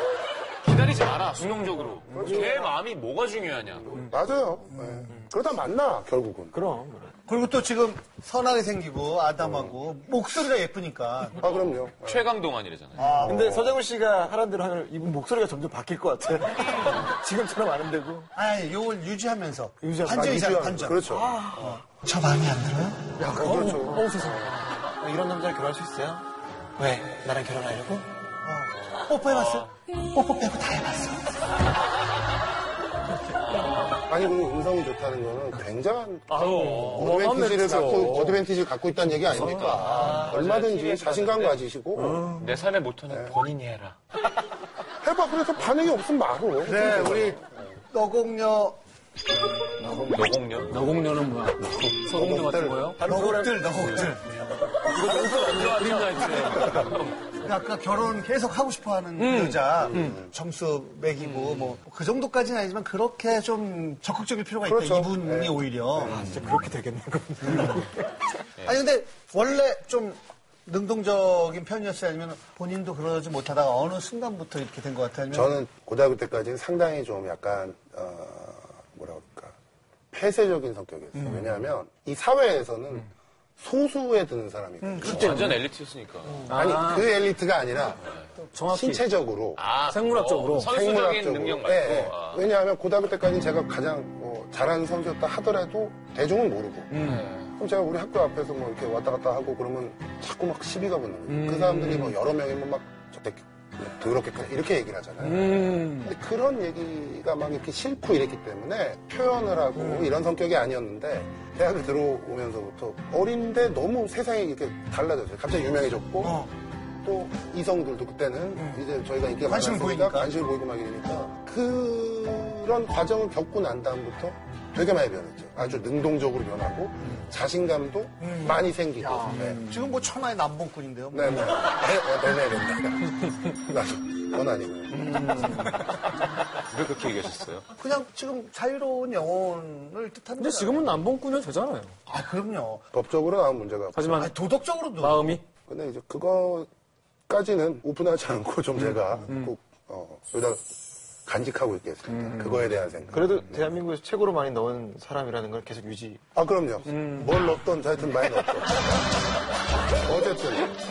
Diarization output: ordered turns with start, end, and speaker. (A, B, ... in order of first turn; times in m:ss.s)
0:00.6-0:04.0 A
0:02.1-0:02.7 B
0:03.9-0:06.6 B
0:06.5-0:07.2 C
0:07.2-0:11.4 D
0:09.4-0:09.8 B
0:11.4-0:12.2 B
0:11.4-0:13.2 A
0:13.0-0:13.6 D
0:13.2-0:13.8 B
0:13.2-0:18.3 C
0:18.3-0:21.0 D
0:19.8-0:20.3 C
0:20.0-0:21.8 B
0:21.1-0:21.9 C
0:21.9-0:23.2 D
0:23.2-0:24.6 B
0:23.3-0:24.5 E
0:24.6-0:28.1 C
0:28.4-0:31.1 D
0:29.2-0:29.7 A
0:30.3-0:31.2 C
0:33.4-0:34.0 A
0:34.1-0:42.4 B
0:36.3-0:38.4 E
0:36.4-0:37.1 A
0:39.3-0:39.8 E
0:39.4-0:41.6 A
0:39.7-0:40.2 D
0:42.0-0:42.4 E
0:42.4-0:44.0 A
0:43.1-0:43.3 B
0:45.0-0:47.5 B
0:46.6-0:48.8 D
0:49.8-0:50.8 A
0:50.7-0:53.0 E
0:51.6-0:52.9 B
0:53.0-0:54.1 C
0:53.0-0:54.3 D
0:54.9-0:57.2 A
0:54.9-0:56.8 E
0:57.4-1:06.2 D
0:59.2-1:00.1 E
0:59.8-1:00.3 B
1:01.2-1:01.8 A
1:04.6-1:06.4 B
1:06.0-1:08.0 C
1:08.6-1:15.5 D
1:15.3-1:19.5 B
1:20.1-1:25.5 B
1:24.8-1:25.6 E
1:25.0-1:26.5 A
1:26.5-1:27.0 E
1:26.5-1:28.0 B
1:28.5-1:29.0 E
1:28.7-1:29.6 B
1:29.6-1:32.5 A
1:29.9-1:30.7 E
1:30.6-1:37.0 B
1:36.9-1:37.2 E
1:37.0-1:37.5 A
1:37.6-1:56.4 B
1:41.3-1:42.1 E
1:45.2-1:46.1 E
1:56.2-1:56.5 D
1:57.0-2:09.6 B
1:58.6-1:58.8 D
1:59.5-2:00.3 D
2:08.2-2:11.6 D
2:11.1-2:15.6 B
2:16.7-2:17.7 A
2:17.8-2:21.0 D
2:20.4-2:21.9 E
2:22.0-2:22.8 D
2:22.9-2:24.3 B
2:23.9-2:24.3 E
2:24.2-2:25.4 D
2:25.0-2:25.4 E
2:25.7-2:26.7 B
2:27.3-2:30.6 B
2:31.2-2:33.6 B
2:33.1-2:36.2 C
2:36.3-2:39.0 B
2:40.0-2:40.7 B